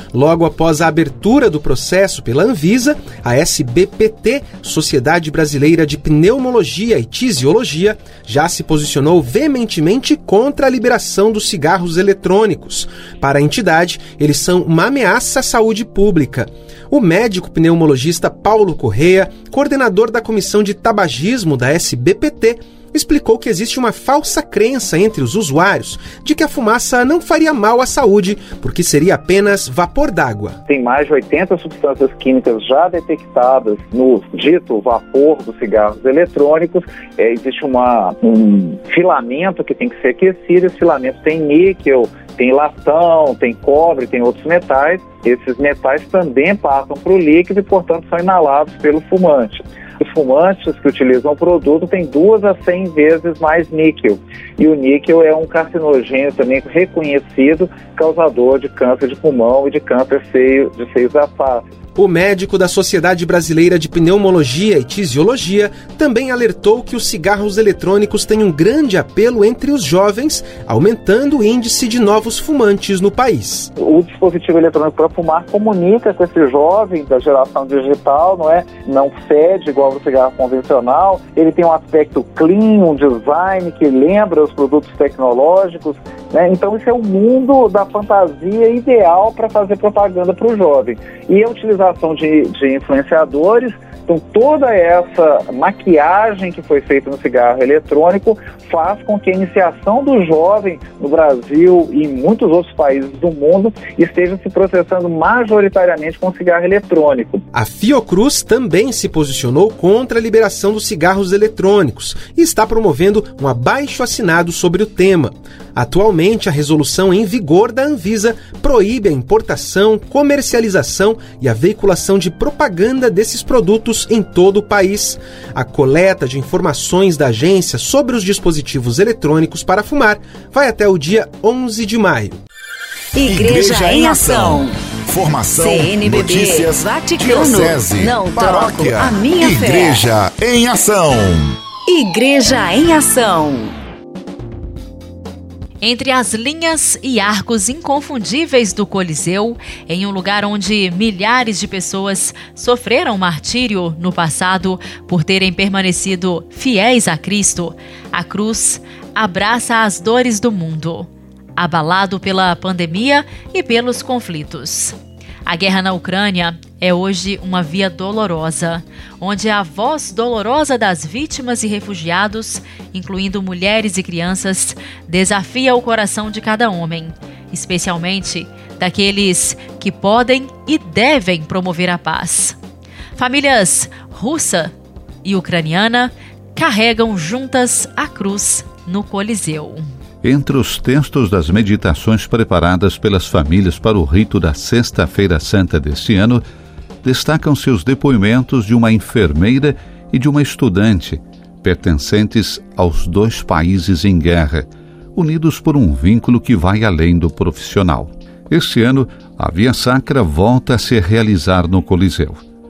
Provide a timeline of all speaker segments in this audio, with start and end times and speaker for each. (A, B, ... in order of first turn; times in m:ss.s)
0:00.1-0:30.6 A
0:30.7-1:01.6 B
1:02.0-1:13.7 A
1:13.8-1:47.4 B
1:47.5-2:12.4 A
2:13.1-2:14.8 C
2:13.2-2:21.6 D
2:15.5-2:20.1 C
2:21.9-2:23.7 C
2:25.8-3:02.6 E
3:03.2-3:04.7 E
3:05.2-3:09.9 E
3:10.2-3:16.4 F
3:17.0-3:32.4 F